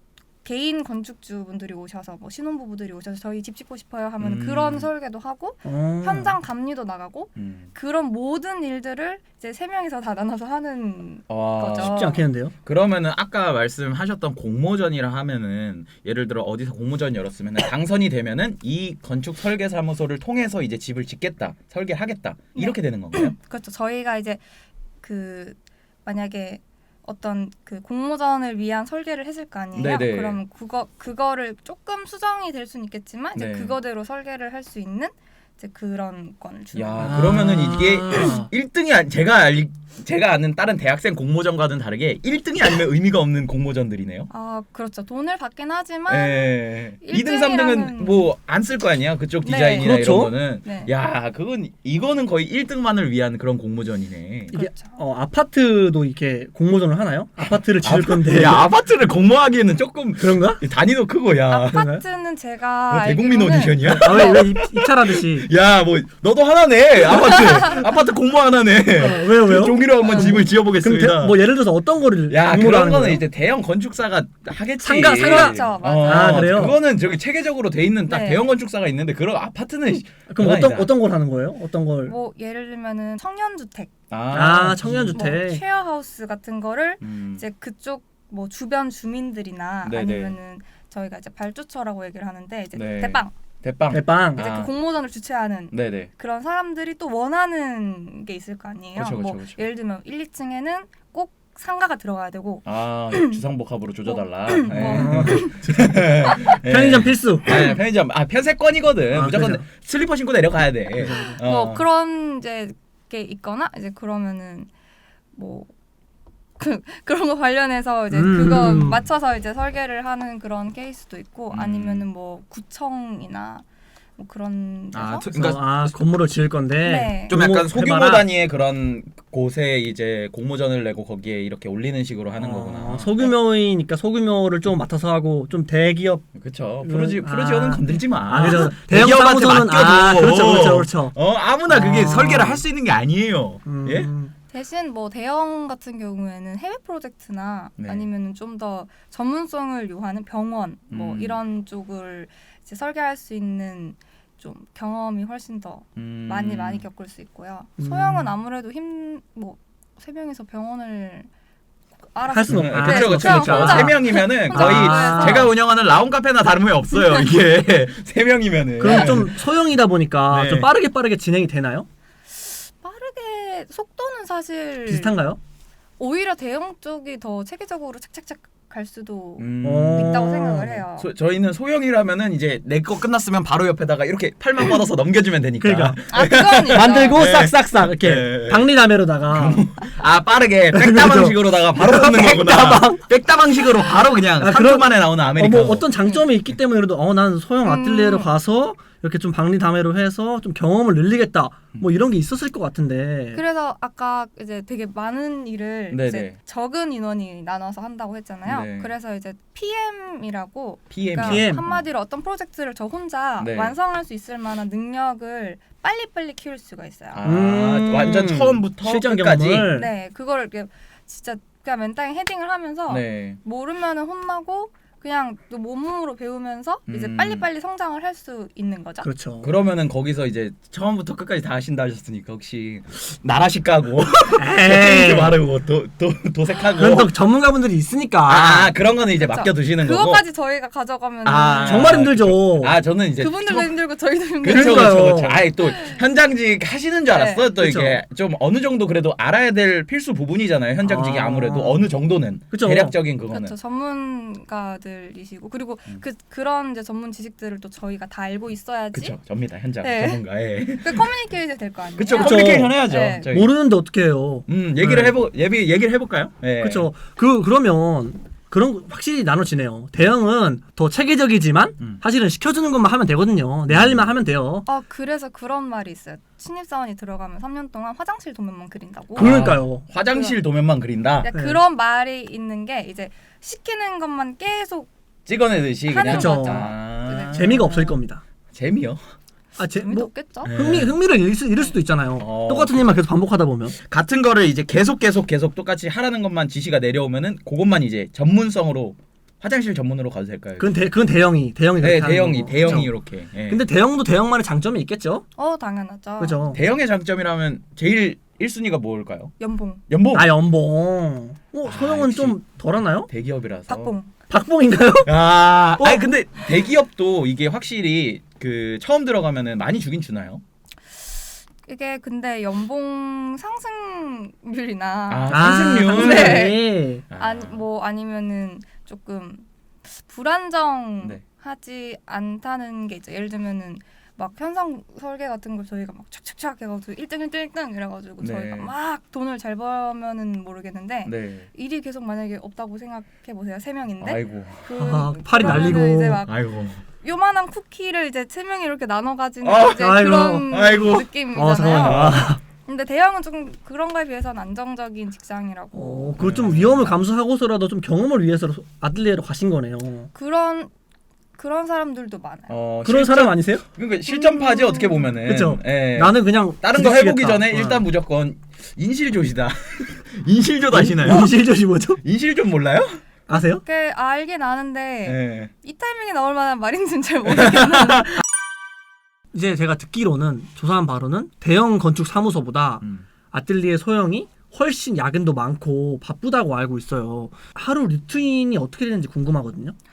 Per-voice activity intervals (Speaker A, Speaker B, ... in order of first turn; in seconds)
Speaker A: 0.4-12.2, 22.5-24.4, 25.0-37.3, 44.3-48.3, 49.4-50.0, 50.6-50.9, 54.5-55.0, 61.5-64.4, 70.1-70.3, 75.0-76.6, 78.1-78.4, 82.0-83.9, 85.1-93.3, 94.4-103.4, 104.1-105.6, 107.5-107.8, 111.1-114.7, 115.3-115.7, 116.6-123.7, 124.2-125.3, 126.8-127.4, 144.5-161.3, 162.1-165.5, 166.9-167.2, 172.3-175.2, 176.0-181.1, 186.1-187.2, 197.6-198.3, 203.3-217.2, 219.7-229.1, 239.2-242.0, 243.2-245.0, 245.6-246.0, 247.1-247.5, 253.3-259.1, 259.8-260.2, 260.8-263.3, 274.6-279.5, 280.1-280.4, 281.2-284.9, 285.9-287.9, 289.7-290.6, 305.4-306.4, 309.4-309.8, 313.7-314.1, 321.6-346.3, 347.0-356.3, 360.1-360.7, 361.4-362.5, 364.1-365.1, 373.3-378.2
Speaker B: 4.2-4.9, 7.3-7.7, 11.3-12.0, 12.6-23.3, 29.7-30.4, 33.3-33.8, 36.7-44.3, 46.1-54.5, 57.4-61.8, 62.9-71.4, 72.3-80.9, 84.1-85.3, 87.0-87.4, 89.8-90.3, 92.7-94.7, 95.7-96.1, 99.0-99.6, 102.6-111.8, 121.5-122.1, 124.9-125.9, 127.3-133.3, 136.3-144.1, 147.8-148.1, 150.9-151.4, 156.0-156.8, 162.5-169.7, 170.3-170.7, 179.4-180.2, 181.0-188.7, 189.3-195.8, 205.9-206.4, 208.5-208.9, 210.9-211.8, 213.4-213.8, 217.1-219.7, 222.9-223.4, 226.9-227.5, 229.4-237.1, 238.2-240.2, 241.2-243.8, 244.4-253.5, 258.9-261.1, 262.0-263.5, 264.5-266.9, 273.7-274.1, 279.1-281.3, 285.2-287.6, 288.5-289.0, 290.4-290.9, 292.2-293.0, 293.8-300.8, 301.8-303.6, 306.5-309.3, 309.9-310.3, 311.6-312.4, 313.1-313.9, 315.0-320.4, 325.1-326.6, 327.1-327.6, 338.2-338.7, 341.0-341.5, 344.0-344.7, 345.4-346.8, 349.4-351.1, 351.7-352.3, 356.2-357.0, 362.5-371.3, 372.0-373.0, 375.1-375.5, 377.3-378.2, 382.8-383.1
Speaker C: 5.6-6.3, 11.8-12.5, 37.0-38.5, 49.8-50.3, 54.5-58.6, 60.2-60.6, 61.7-62.0, 63.8-65.5, 69.0-73.2, 74.8-76.8, 80.3-82.1, 84.3-85.6, 93.9-94.5, 104.7-107.6, 109.1-109.6, 111.0-111.3, 118.1-119.0, 125.3-128.2, 132.4-136.2, 136.8-141.2, 141.7-142.6, 143.7-144.3, 157.8-158.3, 162.3-165.5, 168.8-171.9, 174.9-175.4, 179.6-180.8, 185.6-186.0, 186.7-189.7, 190.7-193.0, 194.4-203.4, 211.2-211.6, 217.2-219.9, 229.0-229.5, 234.3-235.4, 236.8-238.7, 241.7-242.7, 244.4-245.4, 247.6-248.0, 250.8-251.8, 252.5-252.9, 262.1-265.1, 266.6-274.6, 279.2-279.8, 281.3-281.6, 286.1-286.7, 287.3-288.2, 289.6-293.8, 300.6-302.9, 303.5-305.2, 306.2-306.6, 310.1-313.1, 314.3-315.1, 315.8-316.1, 325.3-327.0, 344.8-346.2, 349.8-350.5, 351.3-352.4, 355.7-360.1, 362.8-363.6, 365.2-367.8, 370.7-372.0, 373.3-373.6, 379.3-389.7